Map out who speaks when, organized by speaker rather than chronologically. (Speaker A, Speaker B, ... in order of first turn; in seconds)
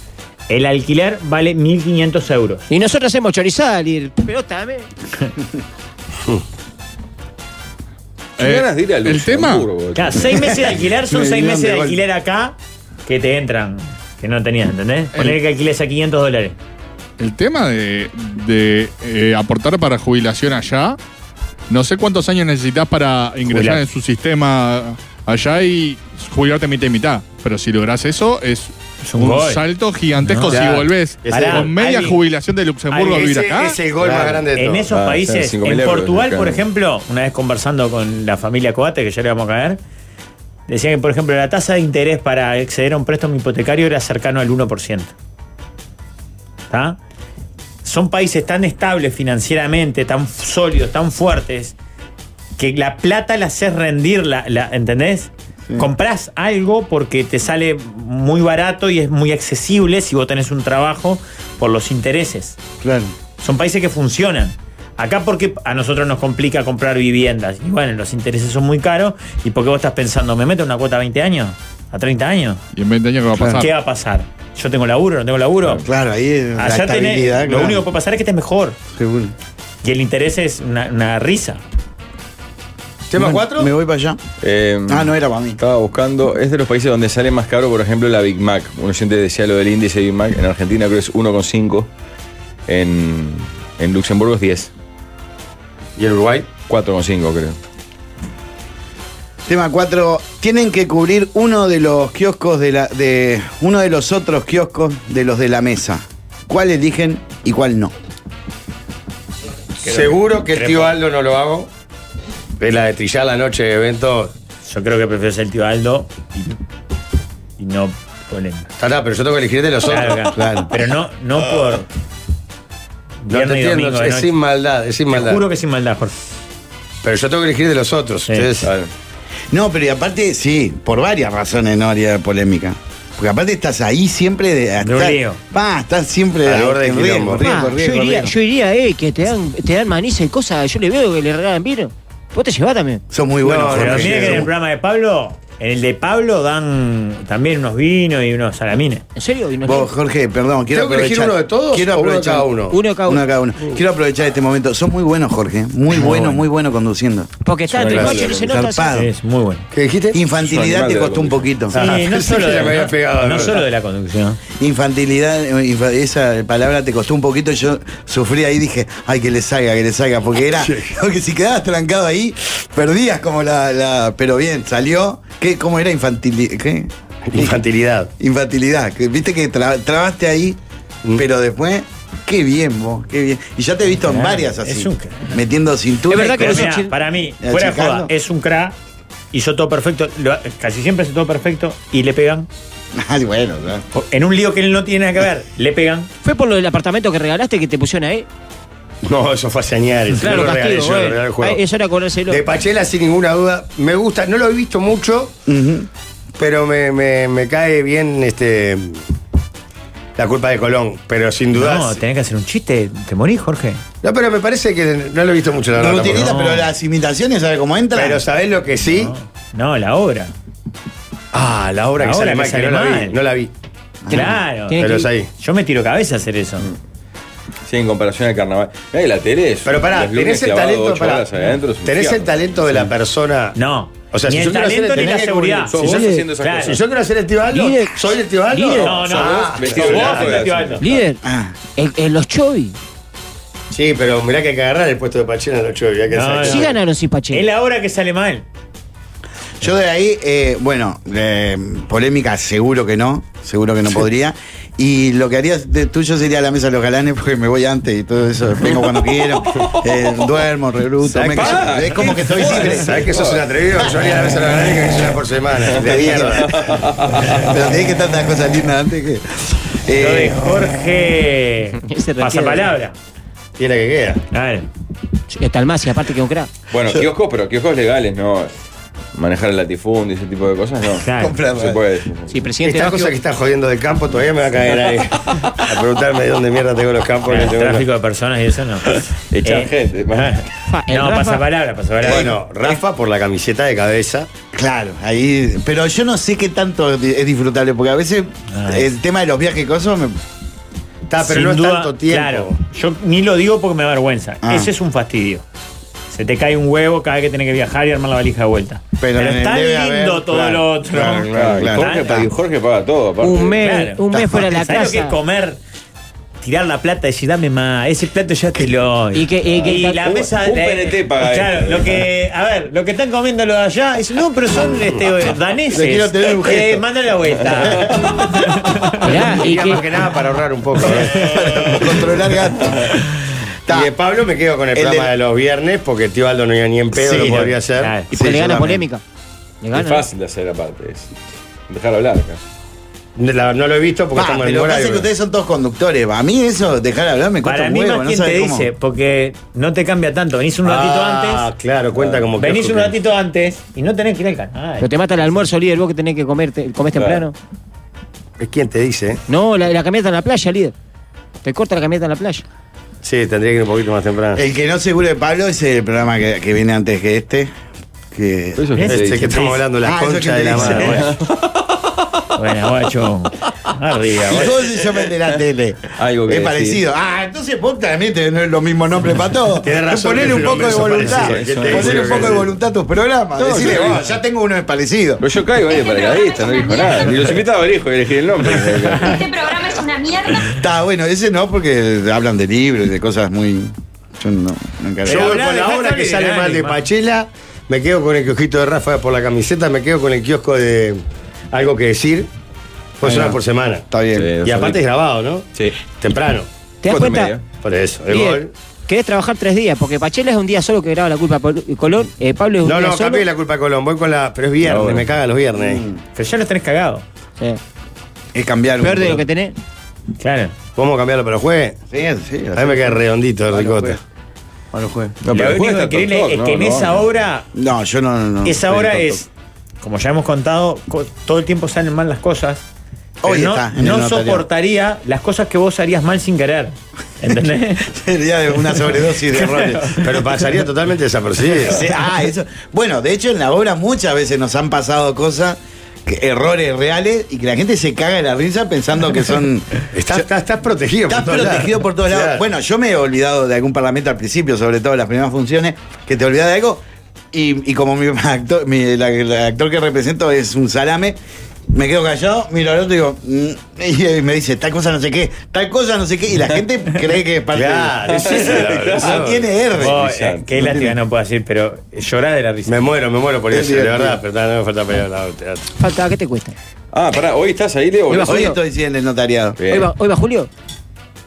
Speaker A: 0.5-2.7, 9.9-12.5, 13.1-16.6, 23.5-23.8, 29.0-29.6, 30.2-30.7, 31.3-32.2, 32.9-33.2, 34.5-39.8, 40.7-45.1, 46.7-47.0, 47.8-51.7, 52.6-62.6, 63.4-72.6, 73.5-75.8, 76.6-78.8, 79.8-81.6, 109.8-111.0, 114.6-116.6, 117.6-118.7, 119.9-121.8, 123.2-124.3, 125.1-126.1, 134.8-135.4, 143.7-149.0, 158.9-159.7, 161.7-164.4, 184.0-185.3, 186.1-188.8, 189.3-192.5, 193.9-196.1, 211.5-213.8, 216.0-216.7, 218.8-220.3, 222.0-223.2, 224.1-224.8, 225.4-226.7, 233.5-236.8, 238.7-240.8, 246.1-246.7, 247.3-248.4, 269.9-272.9, 274.3-274.7, 281.0-281.3, 287.2-292.3, 298.5-298.9, 301.2-305.4, 306.1-312.2, 313.6-315.6, 316.4-327.9, 328.6-329.1, 337.0-338.1, 347.4-351.5, 352.4-354.9, 368.8-369.6, 370.6-371.0, 372.4-374.6, 395.0-396.8, 416.1-417.0, 420.2-420.5, 425.3-427.5, 428.4-429.3, 429.8-432.6, 433.2-437.9, 438.9-440.1, 469.8-472.8
Speaker B: 2.7-4.9, 137.4-143.0, 149.2-149.9, 152.7-153.2, 157.4-159.0, 186.1-186.9, 196.2-198.3, 200.1-202.4, 224.7-225.1, 235.9-236.2, 237.5-239.1, 240.8-241.2, 241.8-242.7, 246.4-247.5, 271.8-272.7, 275.3-276.5, 282.3-283.1, 290.7-291.4, 313.2-315.1, 319.1-320.2, 329.0-329.9, 338.1-339.0, 339.6-340.0, 354.8-357.3, 359.3-360.7, 361.4-362.4, 406.8-407.4, 408.1-413.3, 418.8-419.5, 475.8-476.5, 478.1-478.6, 479.7-480.5
Speaker C: 8.4-10.7, 34.0-34.3, 34.9-36.6, 84.4-91.9, 92.7-94.7, 96.7-97.6, 128.6-128.9, 157.7-158.4, 160.4-161.5, 227.7-232.7, 235.7-236.8, 239.2-241.0, 261.2-263.4, 265.7-267.6, 276.7-278.5, 279.1-282.3, 289.3-290.4, 311.3-313.6, 320.0-322.0, 339.7-341.1, 341.7-342.4, 351.9-352.3, 368.6-369.4, 375.9-376.8, 380.8-382.4, 383.6-383.9, 385.2-389.3, 404.1-404.8, 406.9-407.4, 414.6-415.1, 425.2-427.1, 468.1-470.4, 476.9-478.5, 479.6-479.9
Speaker D: 8.4-9.7, 17.2-21.0, 21.7-33.8, 72.7-73.7
Speaker E: 11.1-12.0, 62.8-63.1, 75.8-77.8, 78.9-79.3, 83.1-84.2, 84.9-85.6, 99.5-107.9, 120.3-120.7, 129.5-138.3, 143.1-144.5, 149.6-152.5, 153.0-159.1, 160.1-162.0, 164.6-177.5, 178.2-180.6, 181.1-186.7, 187.4-188.1, 192.9-193.8, 205.5-205.9, 215.7-218.2, 224.1-224.3, 241.2-241.5, 249.6-263.0, 265.8-266.5, 267.3-270.4, 281.1-281.8, 294.5-300.2, 304.4-304.7, 309.0-312.3, 314.1-314.4, 325.7-326.8, 327.5-327.9, 330.9-333.0, 333.7-333.9, 334.7-335.1, 338.1-338.8, 344.1-348.7, 364.3-367.5, 368.1-368.6, 369.8-371.1, 374.2-385.2, 390.5-395.4, 403.0-404.3, 415.6-416.0, 418.3-419.2, 421.9-424.0, 424.7-425.1, 427.5-429.2, 433.2-434.4, 437.9-439.9, 441.6-450.2, 451.1-461.2, 461.7-470.0, 470.5-470.9, 473.5-474.2, 478.2-479.6
Speaker F: 30.5-31.7, 32.9-34.9, 83.1-83.7, 96.0-96.5, 109.8-111.7, 112.6-114.3, 118.8-120.3, 123.3-125.4, 127.0-128.7, 136.4-137.4, 143.4-144.5, 150.7-152.8, 157.9-158.2, 159.7-160.2, 161.7-163.6, 170.6-170.9, 177.3-178.1, 199.0-201.6, 202.3-205.3, 206.4-209.0, 210.2-212.0, 214.0-216.3, 217.9-219.1, 221.3-223.5, 224.8-225.3, 229.6-231.3, 231.8-233.6, 234.1-240.5, 243.7-246.8, 261.1-266.7, 273.6-274.2, 282.6-287.9, 292.0-294.3, 301.1-302.5, 329.3-331.7, 333.7-337.9, 343.2-345.1, 350.6-352.9, 358.4-359.2, 363.0-364.4, 368.9-371.1, 379.6-382.5, 383.4-384.1, 395.1-401.0, 401.5-402.3, 403.0-403.8, 404.4-406.5, 407.6-408.5, 412.6-415.8, 420.7-421.8, 422.6-424.0, 440.0-441.8, 449.9-452.4, 467.5-469.4, 472.6-475.7
Speaker G: 385.8-387.1, 389.1-390.4